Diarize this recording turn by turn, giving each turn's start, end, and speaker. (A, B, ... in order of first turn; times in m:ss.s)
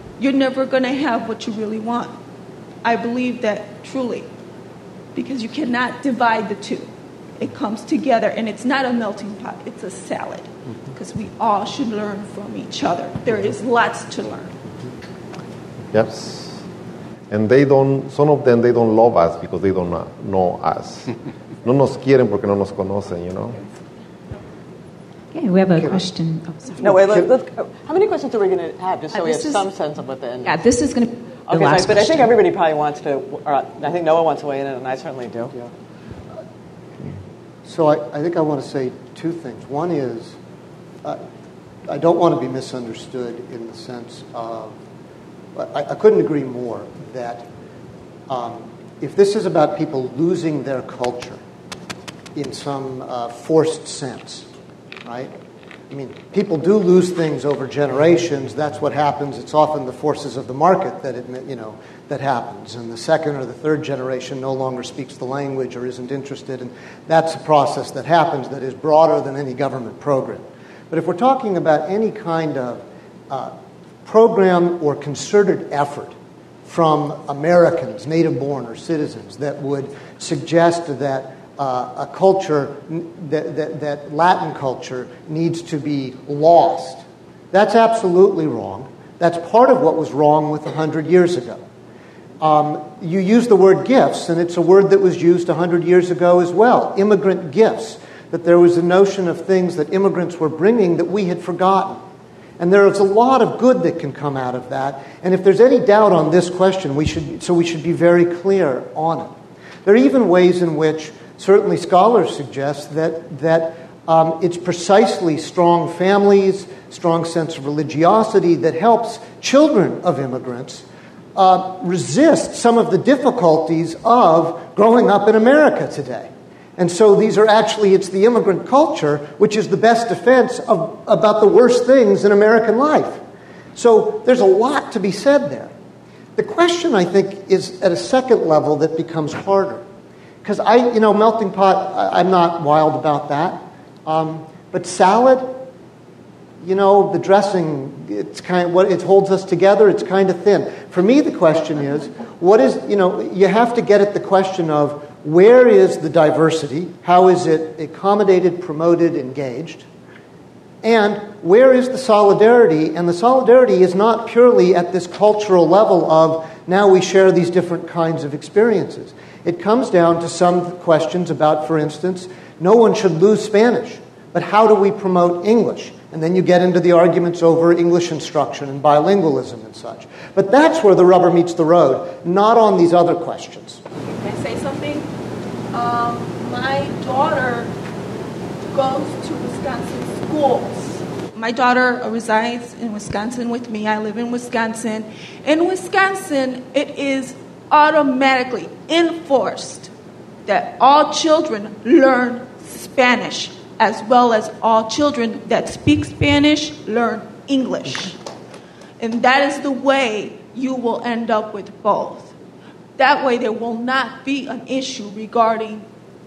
0:00.2-0:02.2 A
0:02.8-0:04.3 A
0:05.2-0:14.6 A
0:15.9-0:16.6 B
0:17.3-0:21.1 B
0:21.6-0:23.6 B
0:25.3-0:26.9 C
0:25.8-0:26.1 D
0:26.8-0:30.6 E
0:26.8-0:27.3 D
0:30.5-0:32.3 C
0:31.5-0:35.6 E
0:37.7-0:40.4 D
0:41.9-0:44.7 D
0:45.6-0:47.5 D
0:48.3-0:51.4 D
0:52.4-0:54.5 D
0:55.0-0:55.3 D
0:55.9-1:13.5 D
1:14.0-1:16.1 D
1:16.7-1:31.6 D
1:32.4-1:42.0 D
1:42.6-1:49.3 D
1:49.8-2:13.2 D
2:13.8-2:15.7 D
2:16.4-2:19.8 D
2:20.4-2:25.6 D
2:26.6-2:39.9 D
2:40.8-3:03.8 D
3:04.0-3:05.1 A
3:05.7-3:07.7 A
3:08.7-3:19.9 A
3:20.5-3:28.2 A
3:29.0-3:32.3 A
3:33.0-3:35.9 A